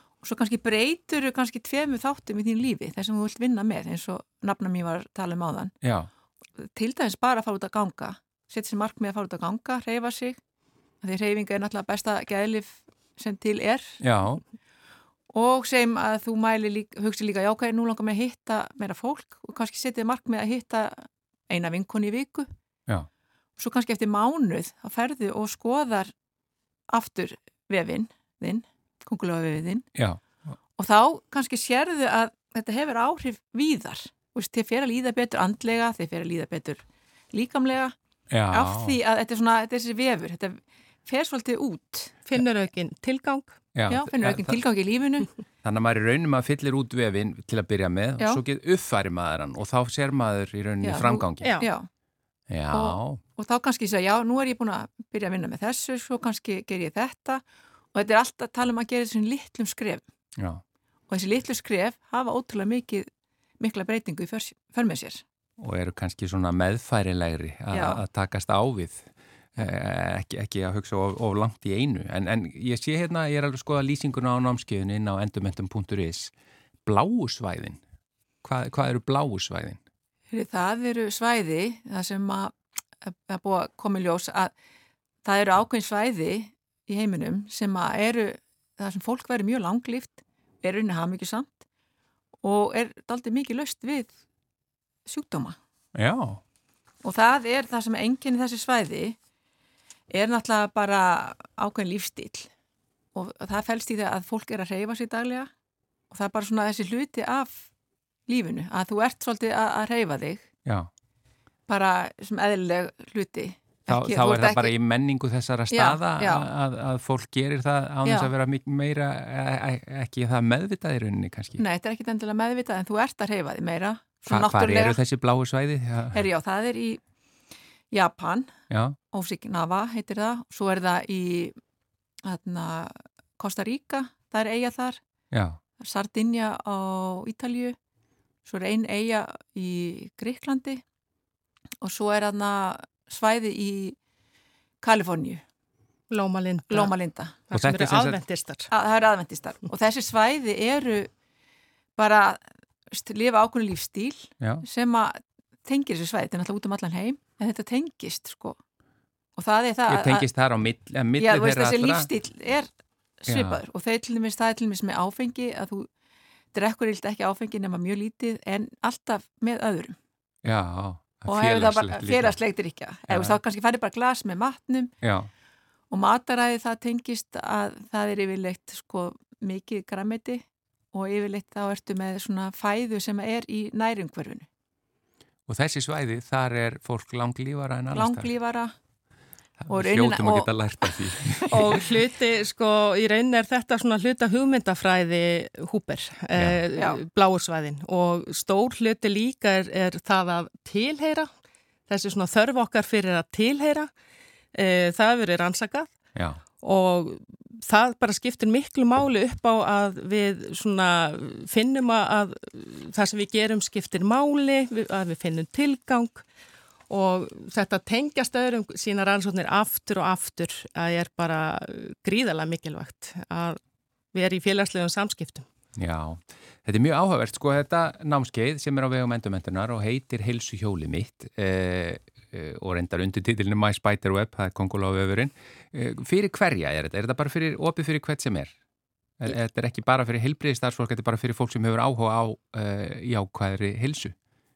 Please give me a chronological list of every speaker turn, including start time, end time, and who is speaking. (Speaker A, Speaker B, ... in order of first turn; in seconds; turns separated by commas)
Speaker A: 0.2-5.7, Speaker B: 5.8-6.1, Speaker A: 6.6-10.4, Speaker A: 11.0-14.0, Speaker B: 14.0-14.4, Speaker A: 15.3-22.5, Speaker A: 23.6-26.1, Speaker A: 26.9-29.9, Speaker B: 30.0-30.2, Speaker A: 30.8-38.0, Speaker B: 38.3-39.0, Speaker A: 38.5-42.1, Speaker C: 42.3-44.0, Speaker B: 43.8-44.6, Speaker A: 43.9-45.3, Speaker B: 45.6-51.6, Speaker A: 50.8-51.9, Speaker C: 51.4-51.7, Speaker B: 52.5-53.2, Speaker A: 52.7-57.4, Speaker A: 57.9-60.0, Speaker B: 60.4-60.6, Speaker A: 61.1-63.1, Speaker A: 63.6-65.2, Speaker B: 65.6-76.3, Speaker A: 67.7-68.0, Speaker B: 76.8-77.8, Speaker B: 78.4-79.8, Speaker A: 80.3-84.5, Speaker A: 85.2-91.6, Speaker A: 92.4-94.2, Speaker A: 95.1-95.6, Speaker B: 96.0-96.4, Speaker A: 97.0-99.2, Speaker A: 100.1-102.5, Speaker A: 103.2-105.5, Speaker A: 106.1-107.7, Speaker A: 108.3-110.5, Speaker A: 111.7-114.7, Speaker B: 113.9-121.6, Speaker A: 115.7-116.5, Speaker A: 121.6-125.0, Speaker B: 124.3-126.2, Speaker A: 126.1-127.0, Speaker A: 127.9-128.5, Speaker B: 128.7-129.0, Speaker A: 129.1-131.6, Speaker A: 132.2-135.0, Speaker B: 135.3-135.6, Speaker A: 135.8-137.8, Speaker A: 138.5-140.8, Speaker A: 141.8-144.0, Speaker A: 144.8-145.4, Speaker C: 146.1-146.9, Speaker A: 146.7-147.4, Speaker C: 147.5-148.7, Speaker B: 147.5-148.2, Speaker A: 148.7-151.1, Speaker A: 152.0-158.6, Speaker A: 159.4-160.3, Speaker B: 159.9-162.1, Speaker A: 161.2-162.7, Speaker A: 163.2-165.9, Speaker B: 163.3-163.6, Speaker A: 166.5-170.0, Speaker B: 170.4-172.4, Speaker A: 171.3-174.9, Speaker B: 173.1-173.4, Speaker B: 175.0-175.3, Speaker A: 175.9-184.5, Speaker B: 185.5-188.3, Speaker A: 187.9-188.7, Speaker B: 189.6-191.8, Speaker A: 189.7-191.2, Speaker C: 191.5-201.3, Speaker B: 196.3-196.6, Speaker A: 196.7-197.0, Speaker C: 201.9-203.9, Speaker C: 204.5-205.9, Speaker B: 206.2-206.4, Speaker C: 206.6-216.2, Speaker C: 216.9-223.6, Speaker C: 224.1-225.5, Speaker B: 225.8-238.5, Speaker B: 239.2-244.2